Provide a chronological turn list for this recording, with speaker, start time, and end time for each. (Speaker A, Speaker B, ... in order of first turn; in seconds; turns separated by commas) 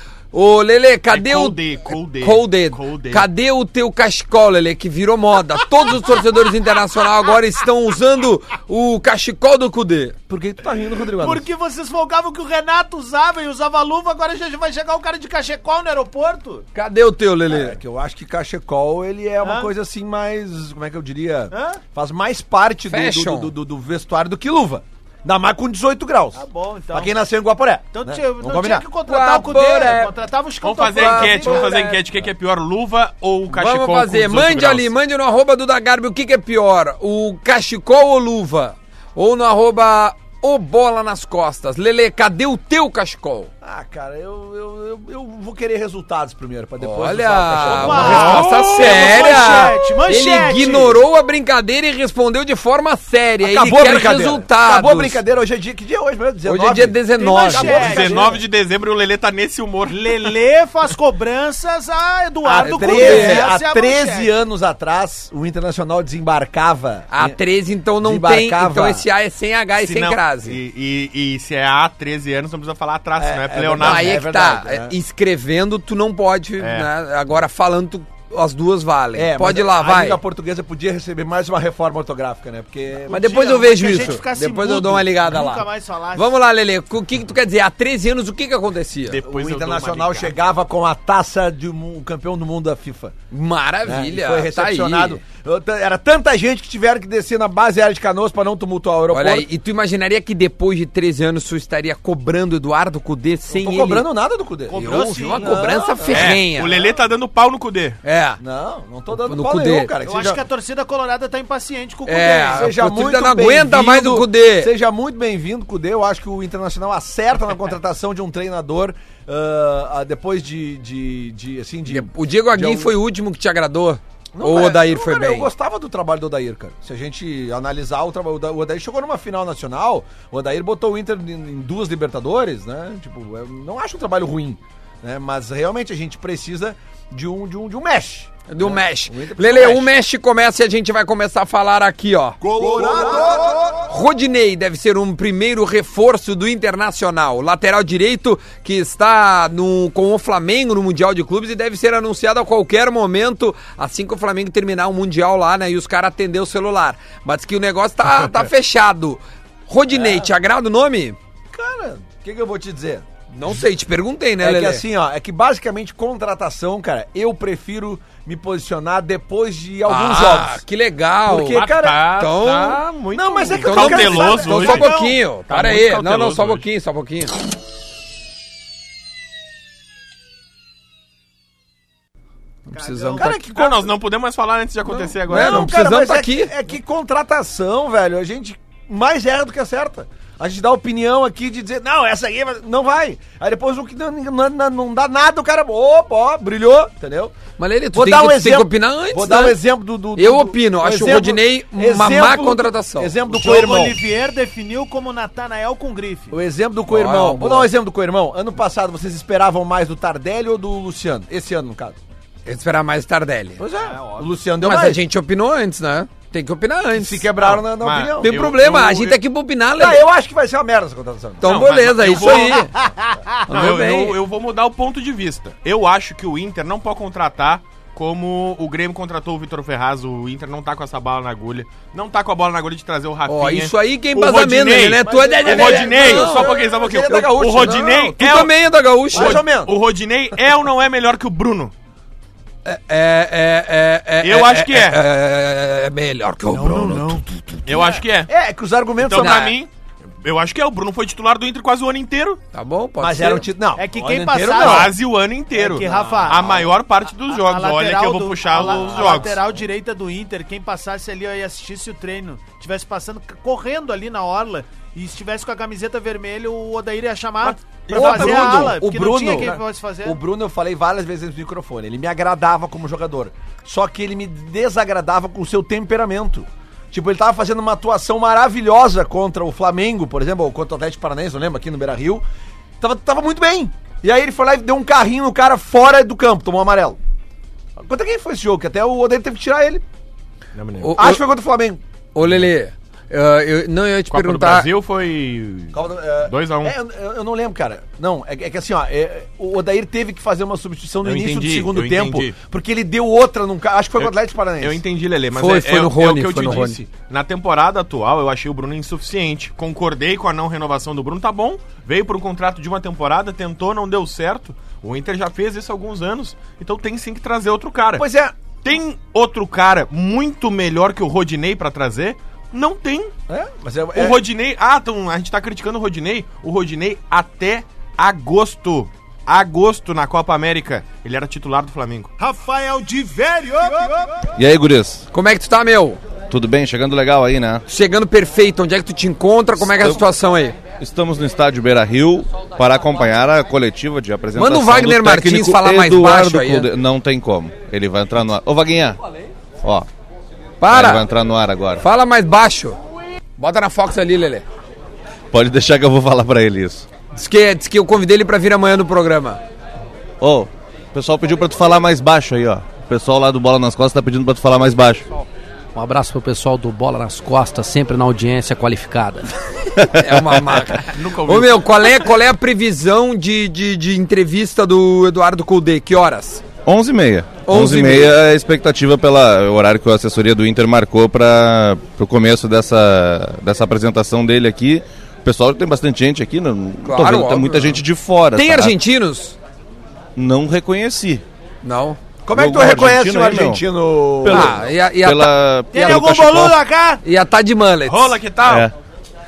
Speaker A: 0.3-10.2, Speaker B: 1.1-3.3, Speaker C: 10.3-11.4, Speaker D: 11.2-16.7, Speaker A: 16.8-17.8, Speaker C: 17.5-28.9, Speaker D: 19.4-19.7, Speaker D: 21.5-21.8, Speaker A: 22.9-23.5, Speaker D: 26.3-27.1, Speaker D: 27.9-31.9, Speaker A: 29.1-30.1, Speaker B: 30.6-34.9, Speaker A: 31.0-31.9, Speaker A: 33.5-43.5, Speaker C: 43.6-48.4, Speaker A: 46.8-55.2, Speaker D: 47.6-51.0, Speaker B: 48.1-49.5, Speaker C: 53.4-58.4, Speaker A: 56.5-58.1, Speaker D: 57.1-58.4, Speaker B: 57.6-60.3, Speaker D: 59.9-64.3, Speaker A: 62.6-63.5, Speaker C: 62.6-67.4, Speaker A: 67.1-70.6, Speaker C: 68.0-69.1, Speaker B: 69.7-74.2, Speaker C: 73.2-75.0, Speaker A: 73.8-80.2, Speaker B: 76.6-76.9, Speaker C: 79.2-83.3, Speaker D: 83.1-86.4, Speaker A: 83.1-89.2, Speaker B: 89.1-90.3, Speaker C: 89.2-93.2, Speaker A: 93.3-95.2, Speaker C: 93.9-99.5, Speaker A: 99.1-104.1, Speaker C: 103.5-106.4, Speaker D: 104.7-105.7, Speaker A: 104.8-106.7, Speaker B: 106.1-108.0, Speaker A: 108.0-108.4, Speaker C: 108.4-110.4, Speaker A: 109.2-109.9, Speaker D: 110.0-112.7, Speaker A: 112.1-114.7, Speaker C: 112.1-123.0, Speaker A: 121.9-125.5, Speaker C: 124.3-139.9, Speaker A: 138.5-142.4, Speaker C: 142.5-143.7, Speaker A: 143.8-161.2, Speaker C: 159.9-160.3, Speaker C: 161.5-163.1, Speaker A: 163.3-164.8, Speaker C: 164.4-170.6, Speaker A: 169.9-171.6, Speaker C: 171.3-172.0, Speaker B: 171.4-174.9, Speaker A: 172.2-172.8, Speaker C: 173.1-174.8, Speaker A: 173.6-177.3, Speaker D: 174.4-175.2, Speaker B: 175.5-176.6, Speaker A: 182.7-183.4, Speaker D: 182.7-183.4, Speaker C: 183.1-183.8, Speaker B: 183.2-185.7, Speaker A: 185.2-186.5, Speaker C: 185.3-197.3, Speaker A: 197.6-199.6, Speaker C: 197.9-204.0, Speaker A: 200.2-203.1, Speaker D: 203.3-206.4, Speaker C: 206.3-212.0, Speaker A: 206.9-207.7, Speaker A: 212.5-213.6, Speaker C: 213.6-215.0, Speaker D: 213.8-214.3, Speaker A: 214.6-217.3, Speaker C: 216.9-218.3, Speaker B: 217.4-219.2, Speaker A: 218.2-220.1, Speaker C: 219.8-221.5, Speaker A: 221.4-222.7, Speaker B: 221.4-222.7, Speaker D: 222.5-223.4, Speaker A: 223.5-224.2, Speaker B: 223.5-238.5, Speaker A: 233.3-236.6, Speaker C: 235.0-238.1, Speaker A: 237.9-239.4, Speaker B: 239.1-241.7, Speaker C: 239.1-239.7, Speaker A: 242.7-247.6, Speaker B: 244.2-245.0, Speaker D: 246.5-247.3, Speaker B: 247.7-248.3, Speaker C: 248.3-249.5, Speaker B: 249.0-249.7, Speaker A: 249.2-249.6, Speaker B: 250.2-252.4, Speaker A: 252.5-253.5, Speaker C: 253.0-254.9, Speaker D: 253.8-255.0, Speaker B: 254.6-259.4, Speaker D: 255.5-256.7, Speaker C: 255.8-256.6, Speaker D: 257.3-270.2, Speaker C: 258.6-259.3, Speaker B: 267.7-268.8, Speaker C: 267.9-282.2, Speaker C: 282.8-287.0, Speaker C: 287.8-289.8, Speaker B: 290.6-291.0, Speaker A: 290.8-291.2, Speaker C: 291.0-291.8, Speaker A: 292.1-294.7, Speaker B: 294.1-296.7, Speaker C: 295.7-304.8, Speaker B: 301.0-302.3, Speaker B: 304.0-318.1, Speaker A: 305.3-306.8, Speaker C: 318.0-318.3, Speaker B: 318.6-323.1, Speaker C: 323.3-324.2, Speaker B: 323.9-332.1, Speaker D: 332.2-334.3, Speaker E: 334.4-335.1, Speaker A: 335.1-336.0, Speaker E: 336.3-337.6, Speaker A: 337.7-340.6, Speaker E: 339.6-340.1, Speaker E: 340.8-349.0, Speaker A: 344.4-346.7, Speaker E: 349.6-349.9, Speaker A: 350.6-351.0, Speaker E: 350.7-351.9, Speaker A: 351.8-352.8, Speaker A: 353.4-354.4, Speaker E: 355.3-356.9, Speaker A: 357.1-359.4, Speaker E: 360.2-365.1, Speaker F: 365.8-369.3, Speaker E: 369.8-370.6, Speaker A: 369.9-376.4, Speaker B: 370.8-372.0, Speaker E: 376.7-388.8, Speaker A: 377.5-378.1, Speaker A: 386.8-389.4, Speaker E: 390.2-391.2, Speaker A: 391.6-392.0, Speaker C: 392.3-394.5, Speaker E: 392.3-393.6, Speaker E: 394.2-396.6, Speaker A: 394.3-396.0, Speaker D: 395.7-397.0, Speaker A: 397.0-398.2, Speaker B: 397.9-398.7, Speaker E: 398.5-398.7